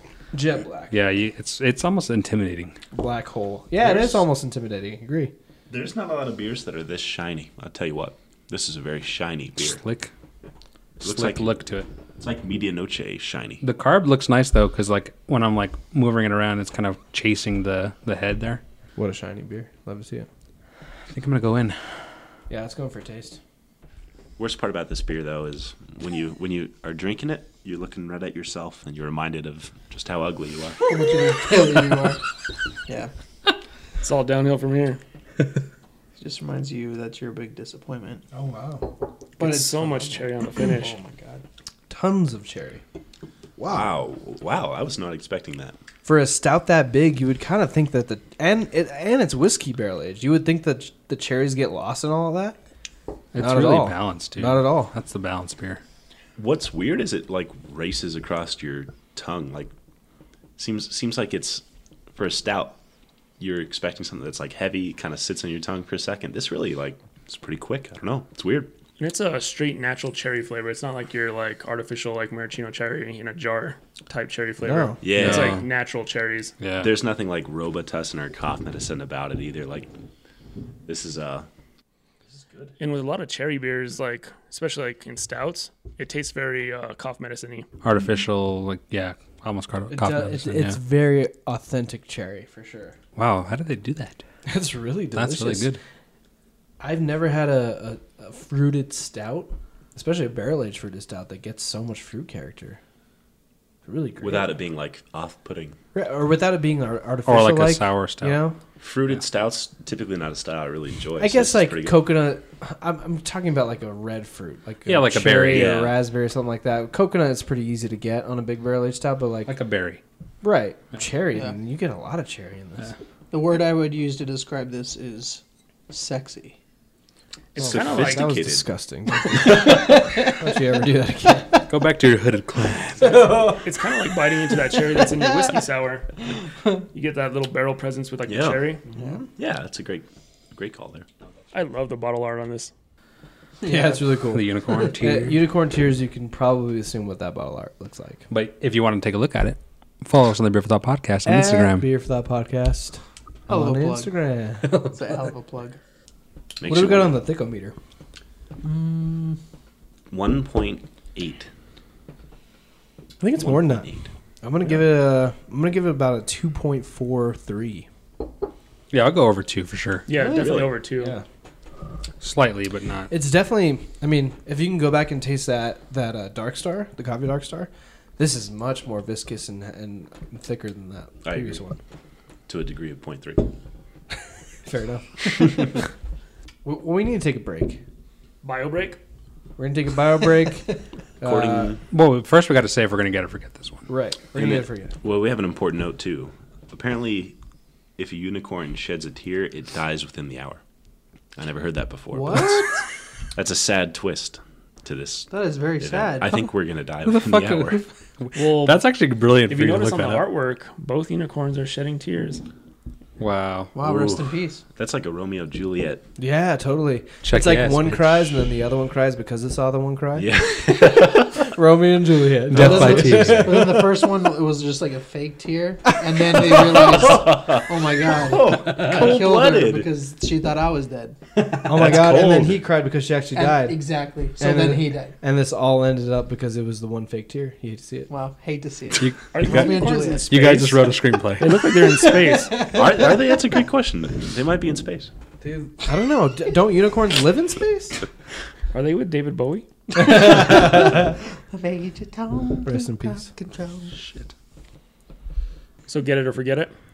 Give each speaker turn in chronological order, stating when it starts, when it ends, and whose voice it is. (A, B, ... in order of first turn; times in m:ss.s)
0:00.3-0:01.0 A
0:00.9-0:02.8 B
0:02.9-0:05.3 A
0:03.8-0:04.2 C
0:05.7-0:09.8 C
0:09.6-0:10.1 B
0:11.0-0:11.5 C
0:11.0-0:11.9 B
0:12.2-0:13.6 C
0:13.6-0:18.6 B
0:19.0-0:20.3 A
0:21.1-0:21.8 B
0:22.5-0:23.4 A
0:24.4-0:30.8 C
0:30.9-0:32.2 D
0:34.0-0:35.0 E
0:36.2-0:38.2 D
0:38.3-0:38.9 A
0:39.4-0:41.0 E
0:39.4-0:41.4 D
0:41.9-0:42.8 A
0:43.6-0:43.9 A
0:43.7-0:45.8 C
0:46.0-0:52.6 A
0:53.3-0:55.8 B
0:53.4-0:54.9 A
0:56.4-0:59.7 C
1:00.6-1:01.6 C
1:02.1-1:02.8 C
1:03.4-1:08.7 C
1:09.0-1:16.5 E
1:14.6-1:15.0 A
1:15.0-1:15.6 C
1:15.2-1:15.6 B
1:16.6-1:16.9 B
1:16.8-1:19.9 C
1:20.9-1:21.5 C
1:22.3-1:22.7 C
1:22.8-1:27.7 E
1:27.8-1:30.8 B
1:29.9-1:33.0 A
1:33.2-1:34.2 B
1:34.5-1:35.7 A
1:35.1-1:35.8 B
1:36.8-1:42.8 A
1:43.8-1:44.5 A
1:44.2-1:45.8 C
1:45.9-1:48.6 A
1:47.3-1:48.4 B
1:48.8-1:52.0 C
1:51.2-1:59.6 A
1:54.9-1:55.9 B
1:55.5-1:56.0 C
1:59.5-2:00.0 B
2:00.4-2:02.9 A
2:03.3-2:06.6 D
2:07.6-2:08.3 E
2:07.6-2:08.7 C
2:07.6-2:11.7 A
2:09.3-2:10.4 D
2:11.7-2:13.5 B
2:13.0-2:13.7 A
2:13.6-2:16.1 E
2:16.9-2:18.8 E
2:18.3-2:18.7 C
2:18.9-2:19.2 A
2:19.4-2:21.1 C
2:21.5-2:22.7 E
2:23.6-2:24.2 D
2:23.6-2:28.3 A
2:24.3-2:25.4 B
2:28.3-2:31.9 B
2:31.2-2:34.8 A
2:33.5-2:34.1 D
2:34.7-2:35.8 D
2:36.6-2:37.2 C
2:36.6-2:37.7 A
2:38.6-2:39.4 D
2:40.1-2:41.5 C
2:43.2-2:43.9 A
2:43.4-2:44.1 C
2:44.4-2:47.9 A
2:48.9-2:50.1 B
2:50.1-2:51.2 E
2:50.2-2:51.2 A
2:50.3-2:50.7 C
2:52.2-2:53.1 B
2:53.1-3:01.8 A
3:01.2-3:01.6 C
3:02.5-3:03.5 C
3:04.6-3:05.9 A
3:06.6-3:07.8 A
3:08.4-3:09.0 E
3:09.6-3:11.8 A
3:11.2-3:11.8 C
3:11.9-3:13.9 B
3:13.9-3:14.9 A
3:14.4-3:17.4 C
3:18.0-3:20.6 C
3:21.4-3:22.7 C
3:22.1-3:22.8 D
3:23.4-3:27.8 C
3:25.3-3:26.4 D
3:27.0-3:30.3 B
3:28.4-3:28.8 E
3:29.5-3:32.4 E
3:33.2-3:33.7 B
3:33.7-3:34.6 D
3:33.8-3:36.1 C
3:36.2-3:44.0 A
3:37.2-3:38.3 B
3:40.2-3:41.5 C
3:42.5-3:43.7 B
3:42.6-3:51.2 D
3:46.4-3:49.9 C
3:48.7-3:49.0 B
3:51.6-3:52.4 B
3:51.6-3:53.8 A
3:51.7-3:52.6 C
3:53.4-3:55.2 D
3:54.4-3:58.1 A
3:58.1-4:00.5 D
3:59.0-4:01.6 B
3:59.3-4:02.8 E
3:59.8-4:00.2 A
4:02.0-4:02.8 D
4:02.7-4:05.1 C
4:05.4-4:08.0 A
4:08.7-4:09.7 E
4:10.0-4:14.0 D
4:10.0-4:11.1 A
4:12.6-4:13.3 A
4:15.9-4:16.7 E